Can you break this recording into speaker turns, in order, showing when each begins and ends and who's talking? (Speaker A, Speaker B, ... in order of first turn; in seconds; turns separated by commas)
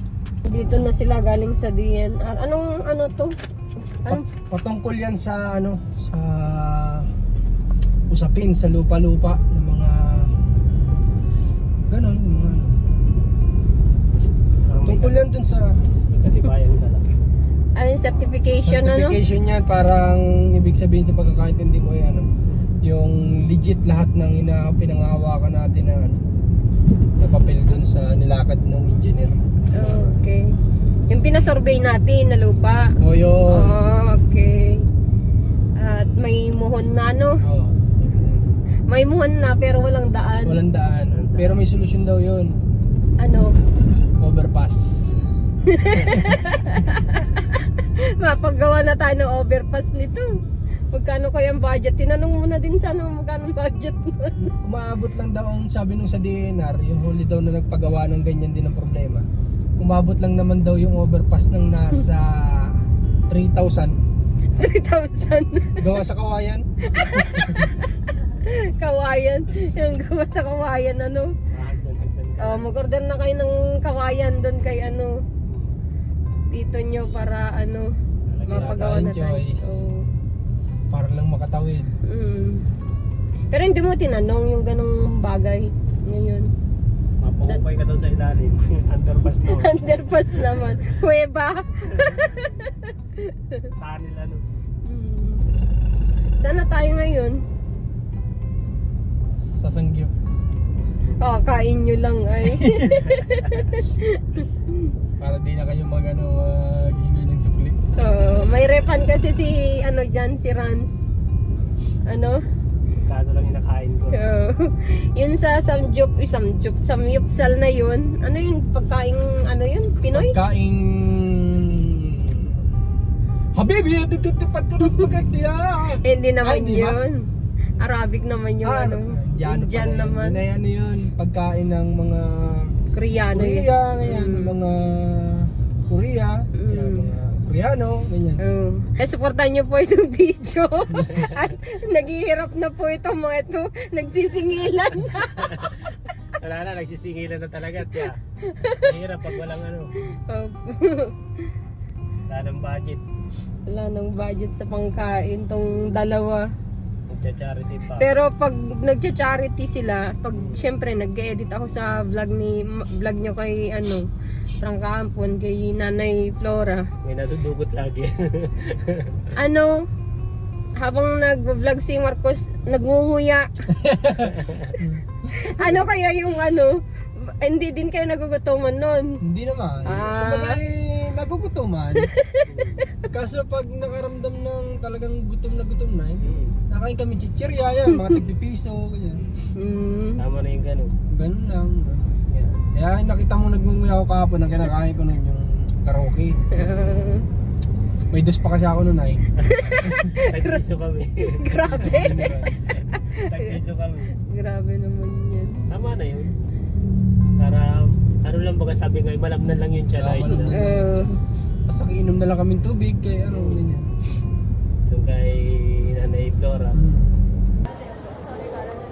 Speaker A: 0.5-3.3, Speaker B: 4.1-7.1, Speaker B: 8.1-10.3, Speaker B: 11.9-12.8, Speaker C: 14.7-15.2, Speaker B: 14.8-15.7, Speaker C: 16.1-17.0, Speaker A: 17.8-19.2, Speaker B: 18.6-22.3, Speaker B: 22.8-26.2, Speaker B: 27.2-29.4, Speaker A: 29.7-30.4, Speaker A: 31.1-32.8, Speaker B: 33.0-33.7, Speaker A: 33.5-34.8, Speaker A: 35.8-37.4, Speaker B: 37.4-37.9, Speaker C: 38.0-38.5, Speaker A: 38.9-40.6, Speaker B: 40.4-42.5, Speaker C: 41.1-41.6, Speaker A: 43.2-43.5, Speaker B: 44.2-45.2, Speaker A: 45.7-50.3, Speaker B: 46.0-46.4, Speaker A: 50.9-54.4, Speaker B: 54.4-59.2, Speaker B: 59.8-63.9, Speaker A: 64.5-65.8, Speaker B: 65.8-67.7, Speaker A: 66.9-71.3, Speaker C: 71.5-72.7, Speaker A: 72.4-75.2, Speaker C: 75.5-75.7, Speaker A: 76.5-77.9, Speaker C: 78.3-78.9, Speaker A: 78.5-80.0, Speaker B: 78.5-79.8, Speaker B: 80.9-81.9, Speaker A: 82.0-82.6, Speaker A: 83.5-86.5, Speaker C: 87.2-90.6, Speaker A: 89.5-93.7, Speaker C: 92.0-92.6, Speaker C: 93.8-94.4, Speaker A: 94.8-95.4, Speaker A: 96.4-97.4, Speaker B: 99.4-100.1, Speaker A: 101.2-104.9, Speaker B: 102.5-103.1, Speaker C: 103.2-103.6, Speaker B: 105.2-107.8, Speaker A: 108.0-111.1, Speaker A: 112.1-112.4, Speaker C: 113.0-114.2, Speaker A: 114.1-120.3, Speaker B: 120.1-122.6, Speaker B: 123.5-127.0, Speaker A: 126.0-127.2, Speaker A: 127.8-130.4, Speaker B: 128.6-132.7, Speaker A: 132.9-134.5, Speaker B: 133.3-138.4, Speaker A: 136.5-137.1, Speaker A: 138.4-145.7, Speaker C: 145.4-148.2, Speaker A: 148.4-148.9, Speaker C: 148.8-149.9, Speaker A: 150.1-151.1, Speaker C: 152.3-153.0, Speaker A: 153.7-156.5, Speaker C: 157.1-158.1, Speaker A: 158.0-164.1, Speaker C: 160.3-160.6, Speaker A: 164.6-166.8, Speaker C: 167.0-169.2, Speaker A: 169.3-169.8, Speaker A: 170.8-173.4, Speaker B: 173.7-175.0, Speaker C: 174.3-174.7, Speaker A: 175.3-179.2, Speaker B: 179.2-182.1, Speaker A: 179.9-180.6, Speaker A: 182.1-182.4, Speaker C: 182.4-182.9, Speaker B: 183.1-189.3, Speaker C: 186.2-186.6, Speaker A: 187.9-188.2, Speaker A: 189.6-190.2, Speaker C: 190.2-190.9, Speaker B: 191.1-196.4, Speaker A: 196.5-197.2, Speaker B: 198.1-199.2, Speaker A: 199.4-200.6, Speaker C: 199.5-202.1, Speaker A: 201.4-203.5, Speaker B: 201.6-202.7, Speaker C: 203.1-204.1, Speaker A: 204.2-205.6, Speaker C: 205.7-206.3, Speaker C: 207.4-210.8, Speaker B: 210.0-211.1, Speaker A: 210.5-211.1, Speaker B: 211.7-213.9, Speaker C: 213.3-213.6, Speaker C: 214.9-216.8, Speaker B: 216.7-217.1